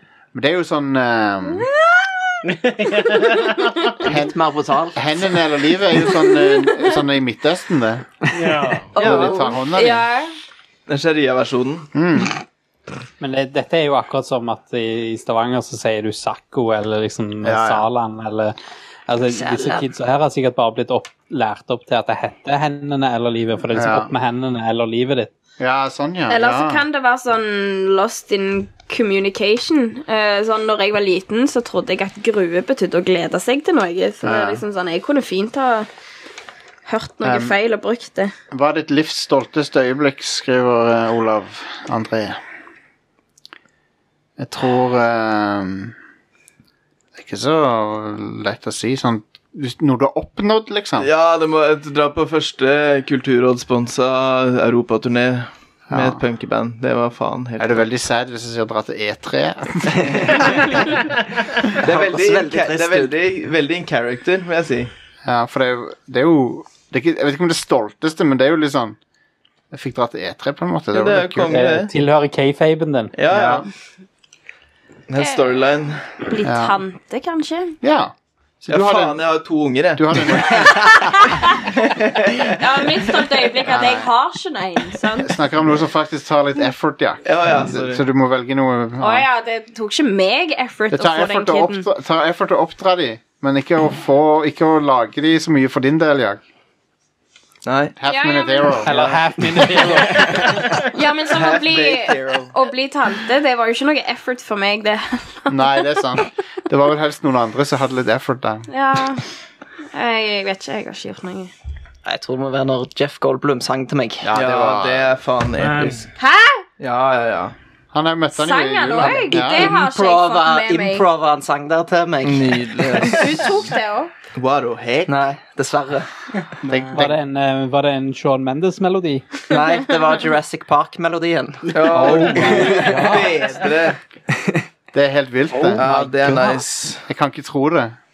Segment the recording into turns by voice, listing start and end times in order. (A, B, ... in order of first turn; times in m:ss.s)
0:00.3-0:01.7 A
0:01.5-0:02.4 B
0:02.4-0:03.7 C
0:03.5-0:03.9 B
0:04.0-0:04.4 A
0:04.0-0:05.3 D
0:04.9-0:08.0 A
0:06.1-0:06.9 B
0:08.3-0:08.9 C
0:08.9-0:10.3 B
0:09.0-0:10.1 A
0:09.0-0:09.4 E
0:10.9-0:11.9 E
0:11.9-0:12.4 A
0:13.2-0:18.6 F
0:17.4-0:17.9 A
0:19.1-0:25.3 F
0:19.3-0:19.8 D
0:23.7-0:24.1 A
0:25.6-0:26.8 A
0:26.3-0:35.9 B
0:34.2-0:34.6 A
0:36.8-0:38.3 B
0:37.2-0:37.6 A
0:38.5-0:42.4 A
0:44.4-0:45.9 A
0:47.1-0:51.1 A
0:51.0-0:57.8 E
0:55.9-0:56.2 A
0:57.6-1:00.8 A
1:00.3-1:00.6 E
1:01.7-1:04.9 E
1:01.7-1:03.1 D
1:05.2-1:09.0 A
1:09.7-1:11.6 A
1:10.9-1:11.9 E
1:11.5-1:13.1 F
1:13.2-1:13.6 E
1:13.3-1:13.7 A
1:15.1-1:16.1 E
1:15.2-1:15.6 B
1:16.2-1:17.8 B
1:16.4-1:16.8 A
1:17.8-1:19.2 A
1:18.7-1:20.7 E
1:20.0-1:21.2 A
1:20.6-1:21.6 B
1:21.8-1:22.6 E
1:22.5-1:25.3 B
1:23.6-1:24.1 A
1:25.2-1:29.3 A
1:27.2-1:28.0 E
1:29.0-1:31.8 B
1:30.9-1:36.4 A
1:37.6-1:38.0 E
1:38.0-1:39.1 A
1:38.0-1:38.9 B
1:38.8-1:40.6 F
1:40.8-1:46.2 B
1:41.3-1:42.6 E
1:45.5-1:48.7 A
1:48.7-1:49.2 B
1:49.9-1:51.5 B
1:52.0-1:54.3 D
1:54.2-1:55.1 A
1:54.3-1:56.1 E
1:55.6-1:56.0 C
1:56.2-1:56.6 B
1:56.8-1:57.5 E
1:57.9-1:59.7 A
1:58.3-2:01.1 B
1:59.3-2:03.2 D
2:02.2-2:03.6 E
2:03.0-2:04.1 B
2:04.3-2:05.2 E
2:05.1-2:06.1 D
2:06.6-2:07.2 A
2:06.9-2:09.3 F
2:09.5-2:13.1 D
2:11.7-2:14.0 E
2:11.9-2:13.4 F
2:14.4-2:14.6 D
2:14.9-2:15.8 A
2:15.7-2:16.6 D
2:15.7-2:17.0 E
2:17.1-2:18.0 A